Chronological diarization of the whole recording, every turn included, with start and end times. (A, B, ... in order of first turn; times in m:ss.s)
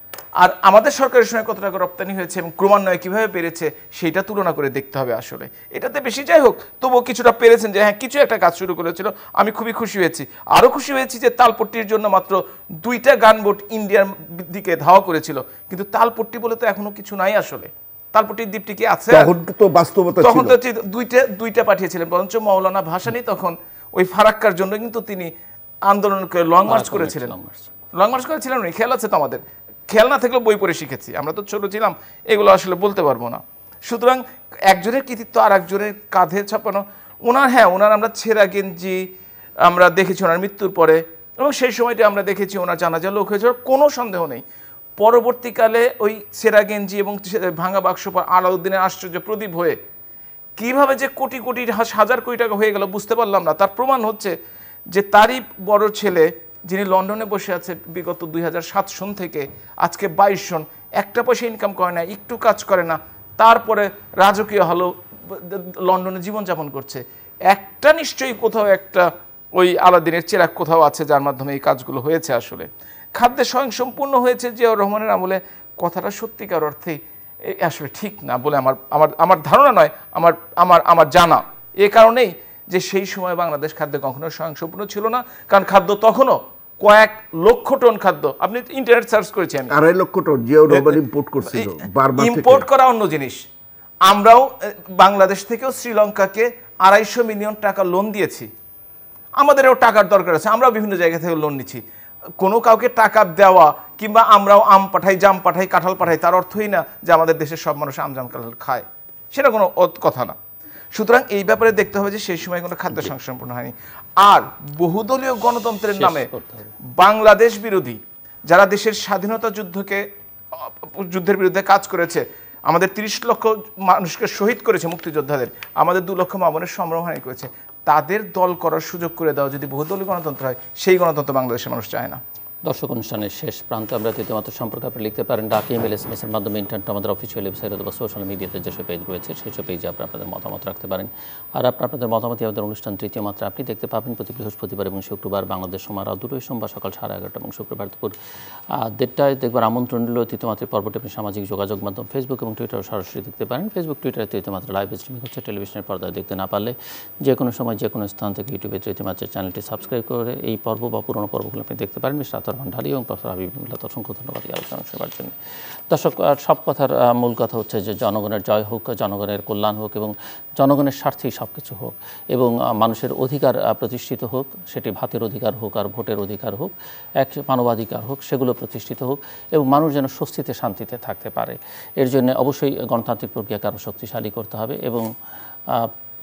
0:00.4-0:19.3 A
0:19.1-0:20.6 B
0:20.2-0:25.3 A
0:25.9-0:27.3 A
0:26.7-0:27.7 C
0:27.9-0:39.1 A
0:39.6-0:44.4 A
0:45.0-0:49.8 A
0:50.6-0:54.3 A
0:54.9-1:29.8 A
1:29.7-1:32.7 B
1:30.7-1:31.0 A
1:31.5-1:33.4 A
1:34.1-1:38.5 A
1:39.4-1:41.8 A
1:42.4-1:50.4 A
1:50.9-1:56.3 A
1:55.9-1:56.8 C
1:57.0-2:12.2 A
2:12.7-2:28.1 C
2:28.8-2:45.3 C
2:45.9-3:05.1 C